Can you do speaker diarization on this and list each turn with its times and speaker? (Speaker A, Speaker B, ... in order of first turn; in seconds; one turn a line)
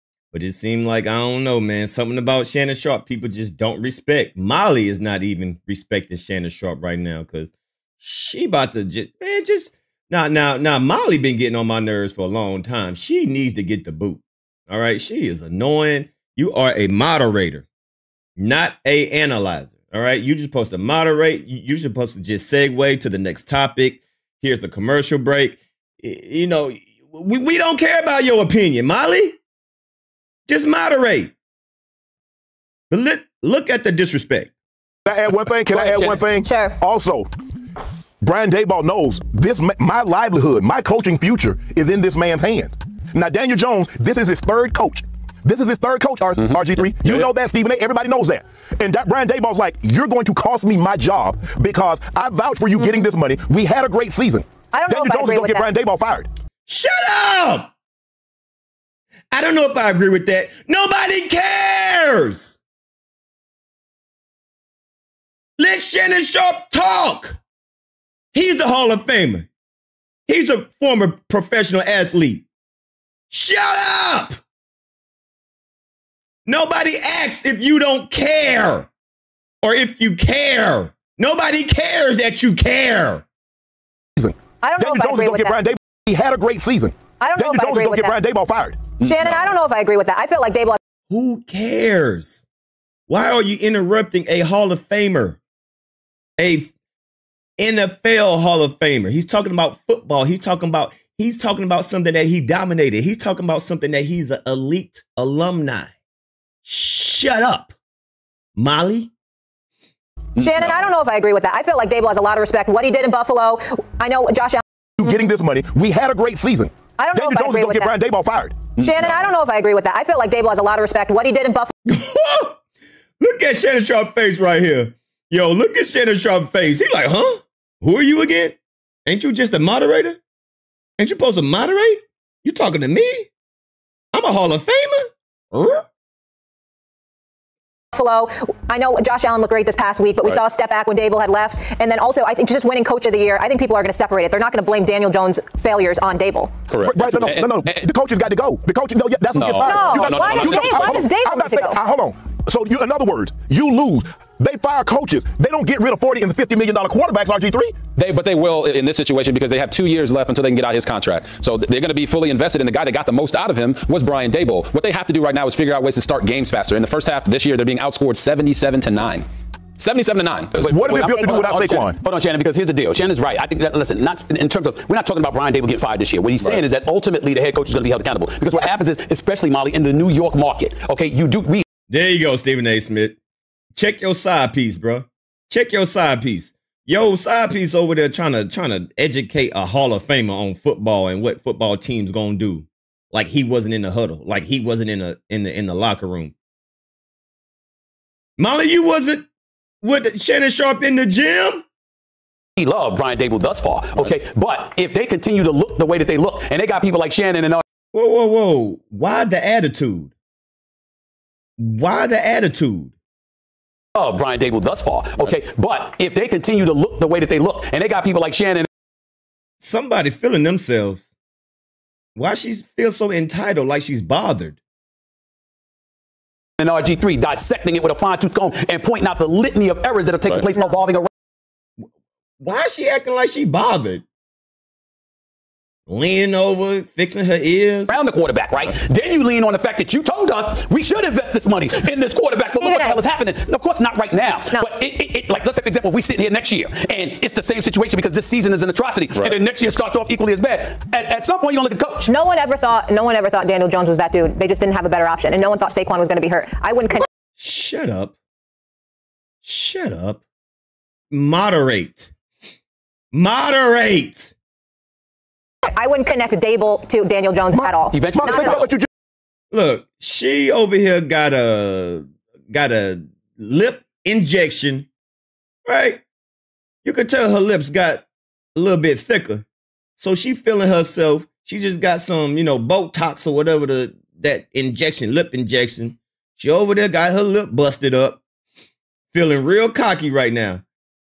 Speaker A: 0.3-17.7
Speaker A: 18.4-29.4
Speaker A: 30.5-31.3
Speaker A: 32.9-34.5
Speaker B: 35.0-37.3
Speaker C: 35.7-36.2
Speaker D: 36.4-36.7
Speaker B: 38.2-56.3
Speaker D: 54.7-55.7
Speaker A: 56.7-57.7
Speaker A: 59.3-62.6
Speaker A: 65.6-67.4
Speaker A: 68.3-69.5
Speaker A: 70.3-72.5
Speaker A: 73.3-74.4
Speaker A: 76.5-78.9
Speaker A: 79.6-83.2
Speaker B: 84.2-88.8
Speaker D: 84.6-85.6
Speaker D: 87.2-88.2
Speaker D: 89.0-90.8
Speaker A: 91.1-92.5
Speaker A: 93.1-95.4
Speaker A: 96.4-96.7
Speaker A: 97.6-105.9
Speaker A: 106.6-107.7
Speaker A: 108.5-109.1
Speaker D: 110.4-114.6
Speaker B: 115.0-118.6
Speaker D: 117.0-117.9
Speaker D: 118.8-121.7
Speaker A: 121.9-122.6
Speaker A: 123.2-130.2
Speaker A: 131.0-133.3
Speaker A: 134.1-135.8
Speaker D: 137.9-146.6
Speaker E: 146.7-147.8
Speaker B: 146.8-157.8
Speaker E: 149.3-150.6
Speaker D: 149.6-151.8
Speaker C: 149.9-151.0
Speaker E: 157.9-169.3
Speaker E: 169.8-170.8
Speaker C: 170.6-181.6
Speaker B: 170.7-172.0
Speaker A: 181.9-183.2
Speaker A: 183.7-196.3
Speaker A: 198.4-199.2
Speaker A: 199.8-201.6
Speaker C: 202.6-207.6
Speaker A: 207.9-210.1
Speaker A: 211.6-212.9
Speaker C: 213.9-218.7
Speaker A: 219.6-221.1
Speaker A: 222.2-224.6
Speaker C: 226.6-231.1
Speaker A: 232.4-234.0
Speaker A: 235.9-238.0
Speaker C: 237.9-252.1
Speaker D: 242.6-243.0
Speaker D: 252.0-257.1
Speaker A: 257.4-258.1
Speaker A: 259.4-260.2
Speaker A: 261.1-262.1
Speaker A: 263.1-264.3
Speaker D: 265.6-268.6
Speaker B: 267.5-268.9
Speaker C: 267.9-268.7
Speaker A: 269.5-274.9
Speaker A: 275.6-276.0
Speaker A: 276.8-279.4
Speaker A: 280.0-288.2
Speaker A: 289.1-290.6